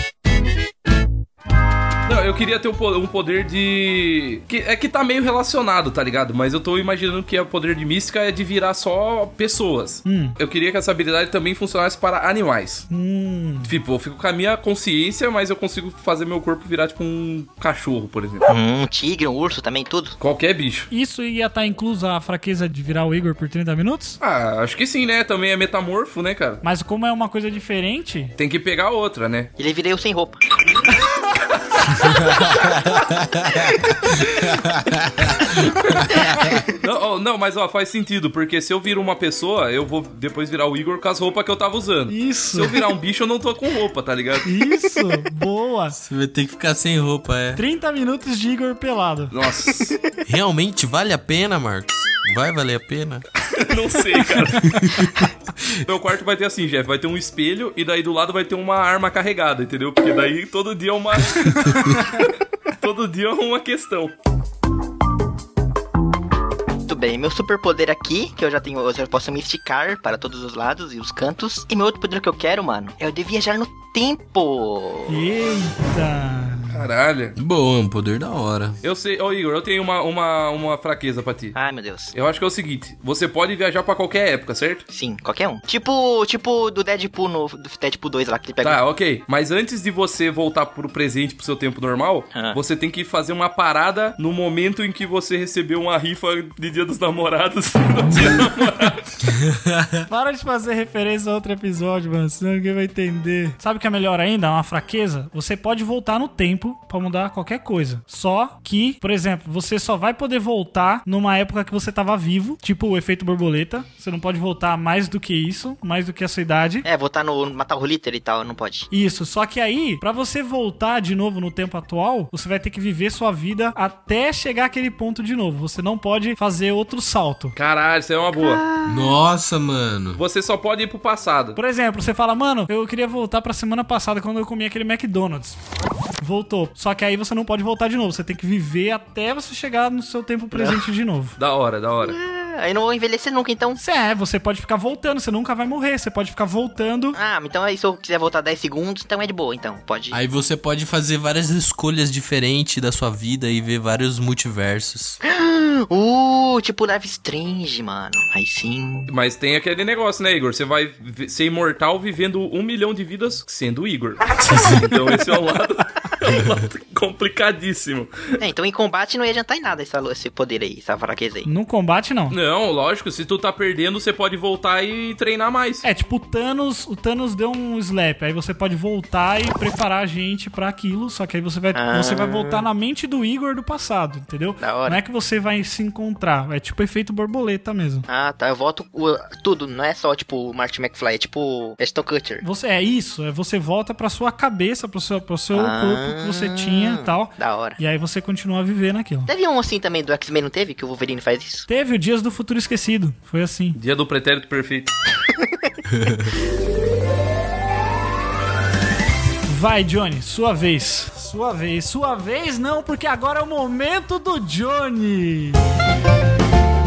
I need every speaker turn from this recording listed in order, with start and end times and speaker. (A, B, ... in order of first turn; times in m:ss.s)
0:02.1-0:12.8 A
0:10.0-0:10.3 B
0:12.9-0:13.7 B
0:13.6-0:18.5 A
0:18.5-0:20.2 C
0:20.2-0:20.9 A
0:20.9-0:24.2 B
0:24.2-0:26.6 A
0:26.6-0:28.3 B
0:28.4-0:29.5 A
0:29.6-0:30.4 C
0:32.0-0:36.6 D
0:36.0-0:36.6 B
0:36.8-0:44.5 A
0:42.1-0:42.8 B
0:44.4-0:46.0 B
0:45.9-0:47.6 D
0:47.6-0:49.3 B
0:49.3-0:50.0 A
0:50.2-0:53.2 D
0:53.6-0:54.7 A
0:54.7-0:55.7 D
0:55.8-1:04.1 A
1:06.9-1:15.2 C
1:15.1-1:16.8 B
1:16.7-1:17.4 A
1:17.4-1:18.8 D
1:18.8-1:21.5 A
1:21.5-1:22.1 C
1:22.1-1:24.8 A
1:24.9-1:28.8 C
1:28.6-1:39.1 A
1:32.3-1:32.6 C
1:39.3-1:40.0 D
1:40.1-1:56.8 B
1:56.8-1:58.9 C
1:58.9-2:07.5 B
2:07.6-2:08.6 A
2:08.4-2:09.1 C
2:08.8-2:10.2 D
2:10.2-2:11.6 A
2:11.6-2:15.6 B
2:16.2-2:21.4 B
2:20.5-2:20.8 C
2:21.4-2:22.2 A
2:22.0-2:23.8 C
2:23.8-2:27.2 B
2:27.1-2:30.2 C
2:30.1-2:35.2 D
2:35.2-2:39.1 C
2:39.1-2:48.1 A
2:44.4-2:44.9 D
2:48.4-2:51.5 C
2:51.4-2:52.4 B
2:52.3-2:55.8 A
2:55.8-3:08.0 B
3:01.7-3:02.6 C
3:04.6-3:05.0 C
3:08.1-3:12.4 C
3:12.4-3:19.3 B
3:15.5-3:17.8 C
3:19.3-3:21.7 C
3:21.7-3:23.8 B
3:23.8-3:24.9 A
3:25.9-3:26.3 D
3:29.5-3:35.6 B